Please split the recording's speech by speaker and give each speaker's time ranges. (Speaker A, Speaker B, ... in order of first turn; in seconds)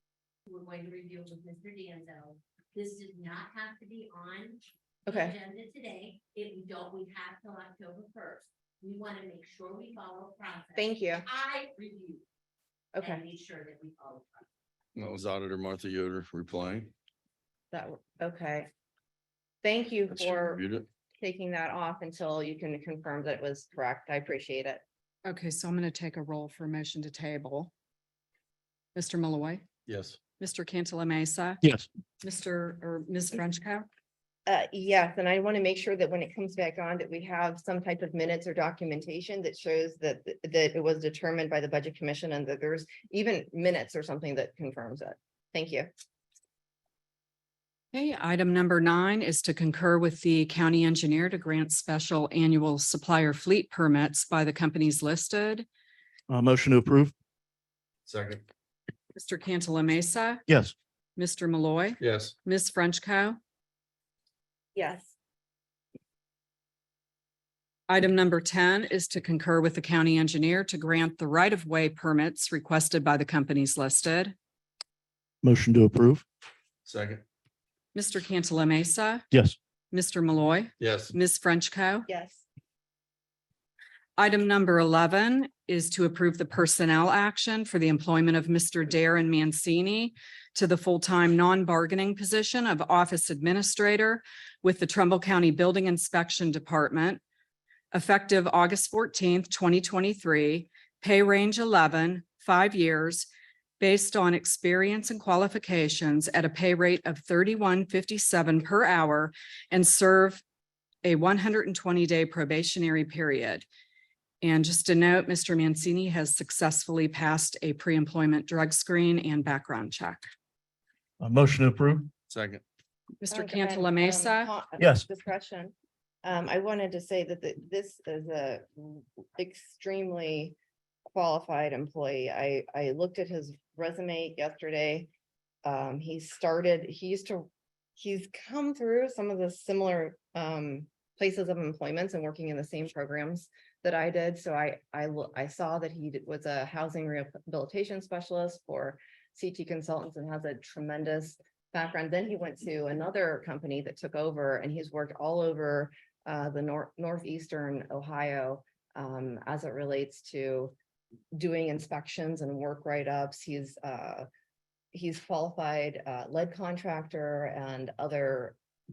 Speaker A: 0.5-12.2, 13.0-14.4
Speaker B: 5.1-5.4, 10.8-11.2, 12.9-13.2, 17.7-18.7, 19.6-20.6, 21.2-24.8, 34.5-45.9, 64.7-65.1, 82.1-82.4, 123.3-130.5, 131.1-135.1, 135.6-160.7, 161.3-164.3, 164.9-168.6
Speaker C: 14.9-16.9, 20.1-20.9, 29.9-30.2, 58.0-58.4, 62.0-62.3, 76.8-77.2, 80.8-81.1, 122.3-122.6
Speaker D: 25.2-27.7, 28.9-29.6, 30.4-31.6, 32.2-33.9, 47.9-55.6, 59.1-60.4, 61.1-63.4, 67.9-74.3, 77.9-79.2, 79.9-82.1, 84.2-97.2, 97.9-103.3, 103.8-110.4, 111.0-113.7, 114.4-120.3, 123.2-124.5
Speaker E: 31.6-31.9, 56.3-57.1, 60.5-60.7, 75.4-76.2, 79.3-79.5, 121.2-122.1, 124.8-125.0